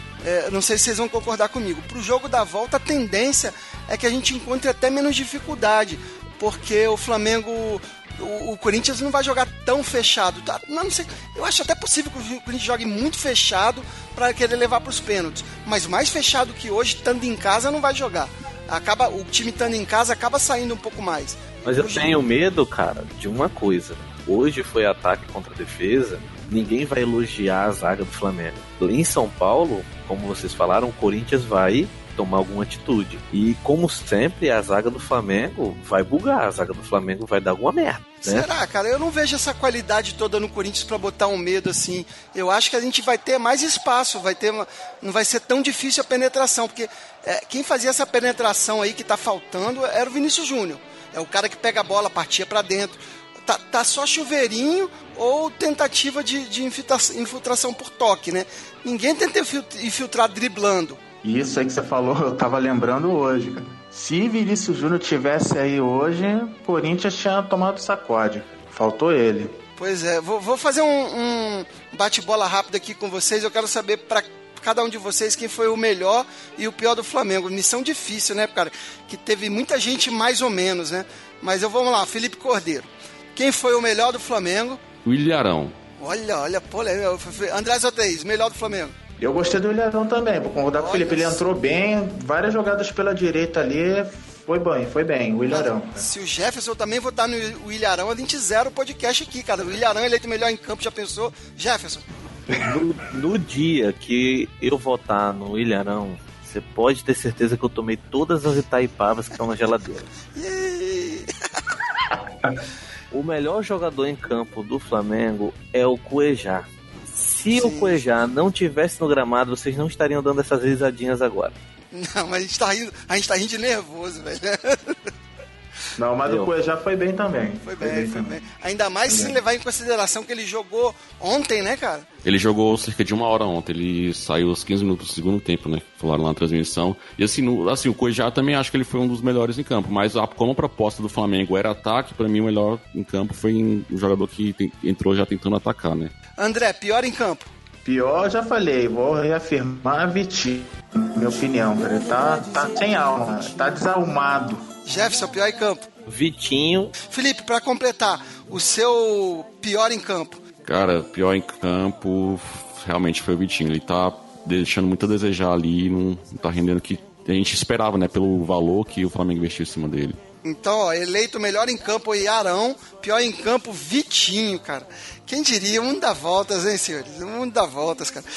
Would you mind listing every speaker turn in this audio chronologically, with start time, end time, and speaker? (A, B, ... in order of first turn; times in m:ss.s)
0:00.2-0:22.2 A
0:21.6-0:38.5 B
0:38.2-1:01.0 A
1:01.2-1:09.6 C
1:09.8-1:24.8 A
1:25.0-1:25.7 D
1:26.0-1:28.9 A
1:29.2-1:36.1 C
1:30.7-1:31.4 A
1:35.5-1:42.0 A
1:42.6-1:50.1 B
1:50.3-1:51.3 A
1:53.1-2:01.6 B
1:57.5-1:58.0 A
2:01.9-2:05.0 A
2:06.0-2:08.4 C
2:06.2-2:06.5 B
2:07.6-2:12.0 A
2:09.1-2:09.4 C
2:12.2-2:26.1 D
2:26.4-2:27.5 A
2:27.8-2:34.6 C
2:34.8-2:35.8 A
2:36.1-2:36.9 B
2:37.1-2:40.4 A
2:40.6-2:50.2 D
2:50.4-2:58.2 A